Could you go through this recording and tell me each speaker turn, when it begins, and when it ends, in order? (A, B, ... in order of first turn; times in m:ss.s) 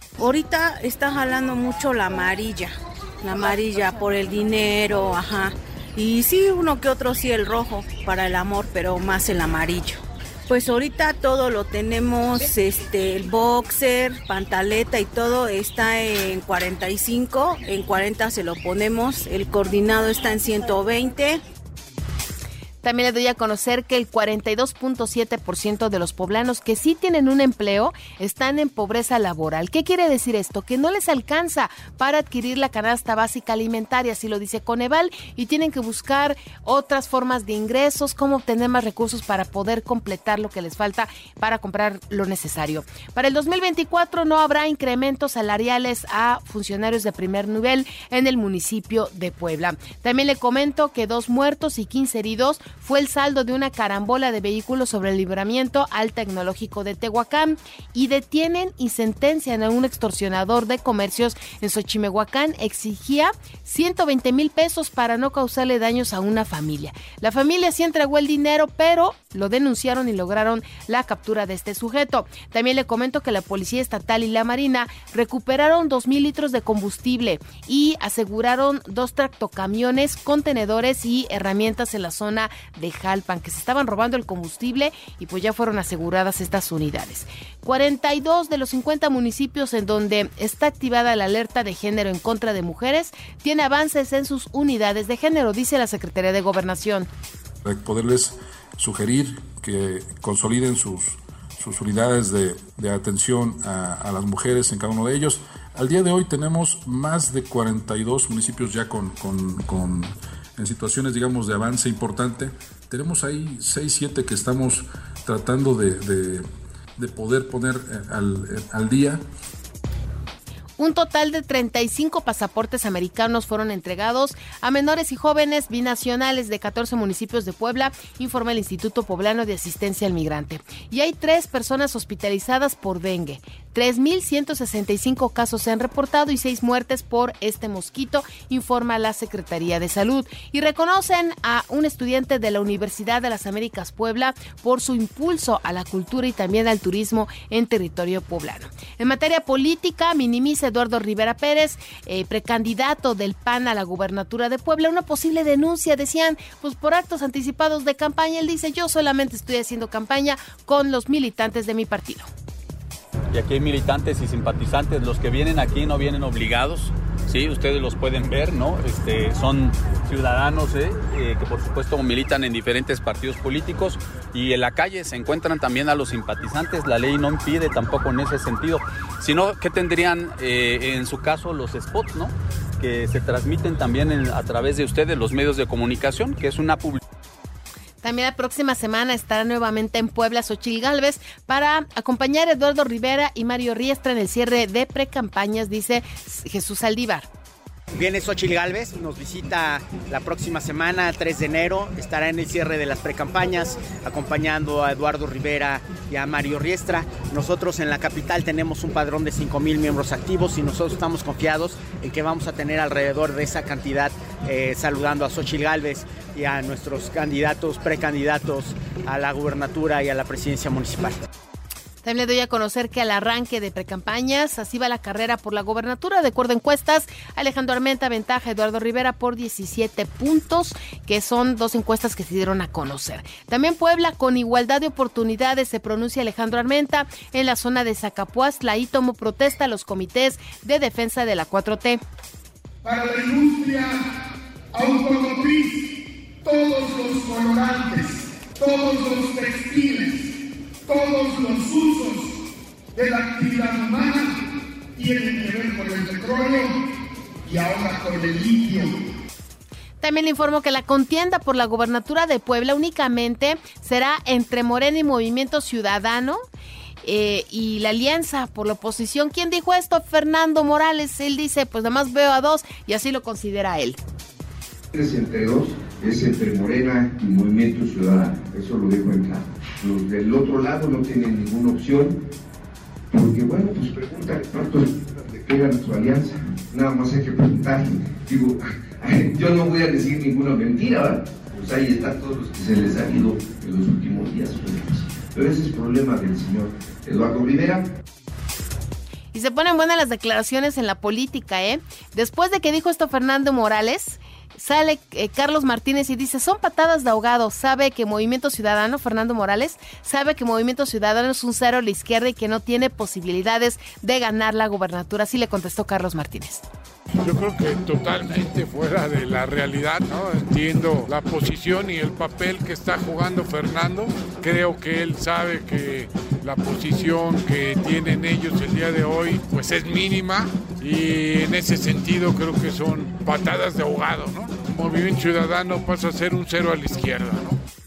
0:00.2-0:21.4 A
0:22.8-1:37.1 B
1:37.6-1:56.4 C
1:57.0-1:59.2 C
2:00.8-2:42.3 B
2:43.3-3:07.0 D
3:08.0-3:17.3 B
3:18.0-3:41.2 E
3:42.0-4:02.0 B
4:02.8-4:04.0 F
4:04.7-4:05.8 F
4:06.4-4:10.2 F
4:10.9-4:12.3 F
4:13.0-4:14.3 F
4:15.0-4:16.7 F
4:17.5-4:18.9 F
4:20.0-4:26.4 B
4:27.0-4:34.0 B
4:34.9-4:42.1 G
4:43.1-4:57.8 G
4:59.3-5:16.6 B
5:17.2-5:37.6 H